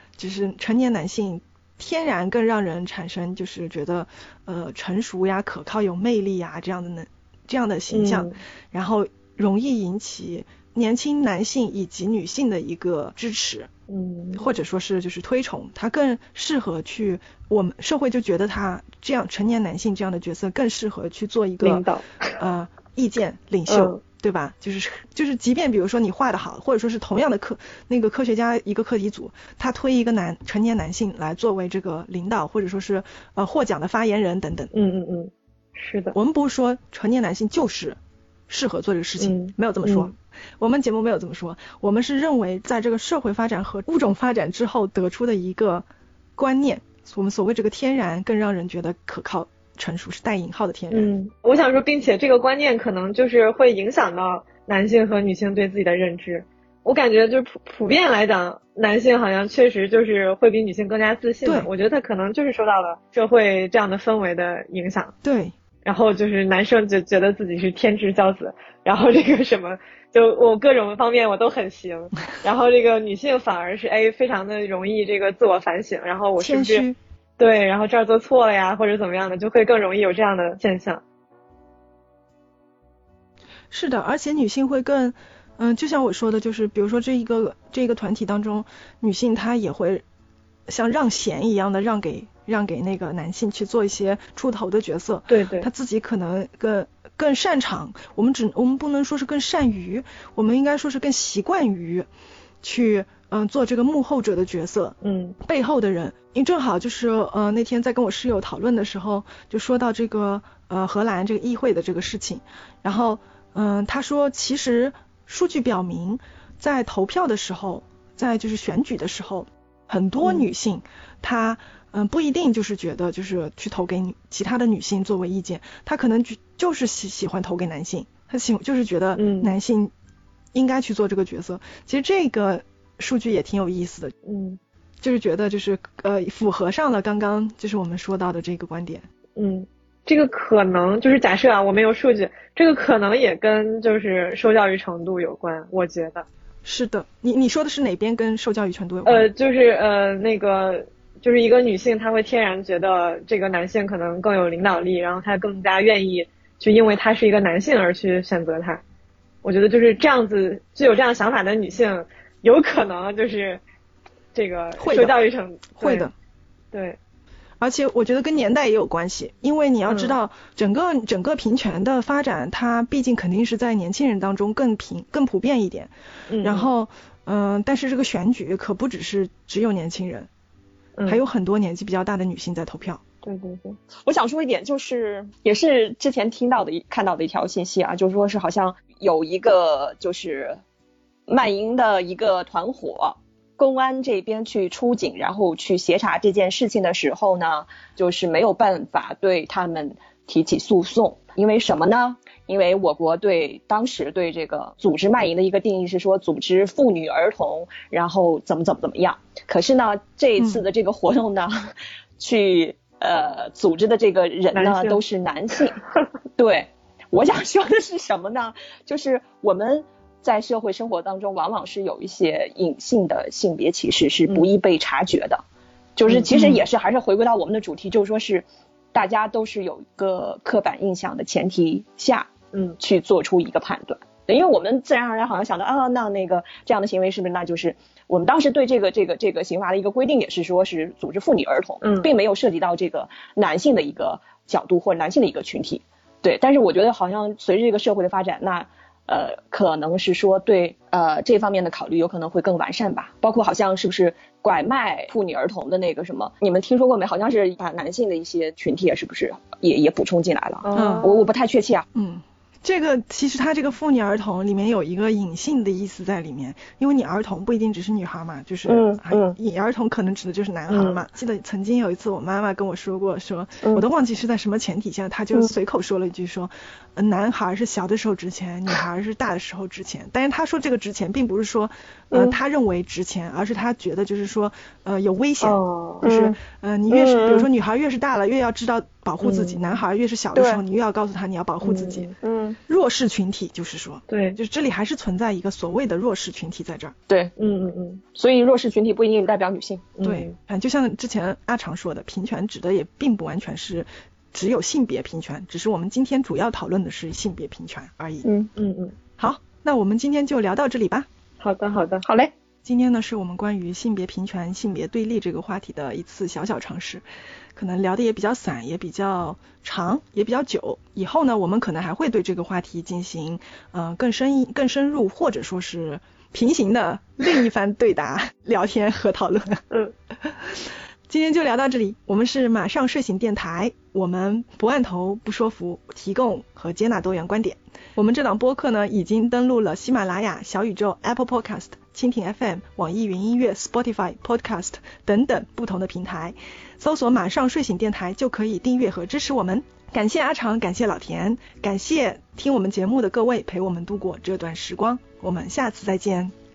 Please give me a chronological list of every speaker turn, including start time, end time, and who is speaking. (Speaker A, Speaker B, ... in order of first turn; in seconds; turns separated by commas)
Speaker A: 0.2-13.7, Speaker B: 7.9-8.4, Speaker B: 13.9-14.4, Speaker A: 14.3-21.9, Speaker B: 21.6-22.4, Speaker A: 22.4-34.7, Speaker B: 23.7-24.0, Speaker B: 34.7-36.1, Speaker A: 36.1-51.1, Speaker B: 39.2-40.1, Speaker B: 50.9-65.1, Speaker A: 61.5-61.7, Speaker A: 65.2-65.5, Speaker B: 65.8-76.8, Speaker A: 76.4-77.0, Speaker B: 77.4-81.0, Speaker A: 83.7-90.0, Speaker A: 90.7-102.1, Speaker B: 95.3-95.7, Speaker A: 102.6-129.9, Speaker B: 105.0-105.4, Speaker B: 129.2-129.6, Speaker A: 130.5-134.1, Speaker B: 134.2-134.6, Speaker A: 135.0-139.1, Speaker B: 139.4-146.3, Speaker A: 146.7-149.3, Speaker B: 149.1-158.8, Speaker B: 159.4-163.6, Speaker B: 164.3-166.1, Speaker A: 164.8-165.2, Speaker A: 165.8-166.1, Speaker B: 166.7-167.0, Speaker A: 167.6-180.3, Speaker B: 169.9-170.2, Speaker B: 176.3-176.7, Speaker A: 181.1-183.0, Speaker B: 183.2-183.8, Speaker C: 184.0-190.6, Speaker C: 191.3-215.8, Speaker A: 210.4-210.6, Speaker B: 214.5-215.0, Speaker C: 216.4-225.4, Speaker C: 226.0-261.9, Speaker B: 226.1-226.6, Speaker B: 232.5-232.8, Speaker B: 241.8-242.1, Speaker B: 260.6-261.3, Speaker A: 260.8-261.1, Speaker A: 261.9-292.1, Speaker C: 268.7-269.4, Speaker B: 285.4-286.1, Speaker C: 286.0-286.4, Speaker C: 286.9-287.5, Speaker B: 289.2-289.8, Speaker C: 290.3-290.6, Speaker B: 291.6-292.1, Speaker C: 292.2-292.6, Speaker A: 292.7-296.9, Speaker B: 294.1-294.4, Speaker B: 297.4-298.0, Speaker C: 298.1-299.9, Speaker B: 300.0-300.3, Speaker A: 300.0-308.2, Speaker C: 308.2-308.5, Speaker B: 308.6-309.0, Speaker A: 309.2-311.1, Speaker B: 311.4-312.1, Speaker C: 312.0-312.3, Speaker A: 312.6-317.0, Speaker A: 317.6-329.6, Speaker A: 330.2-356.3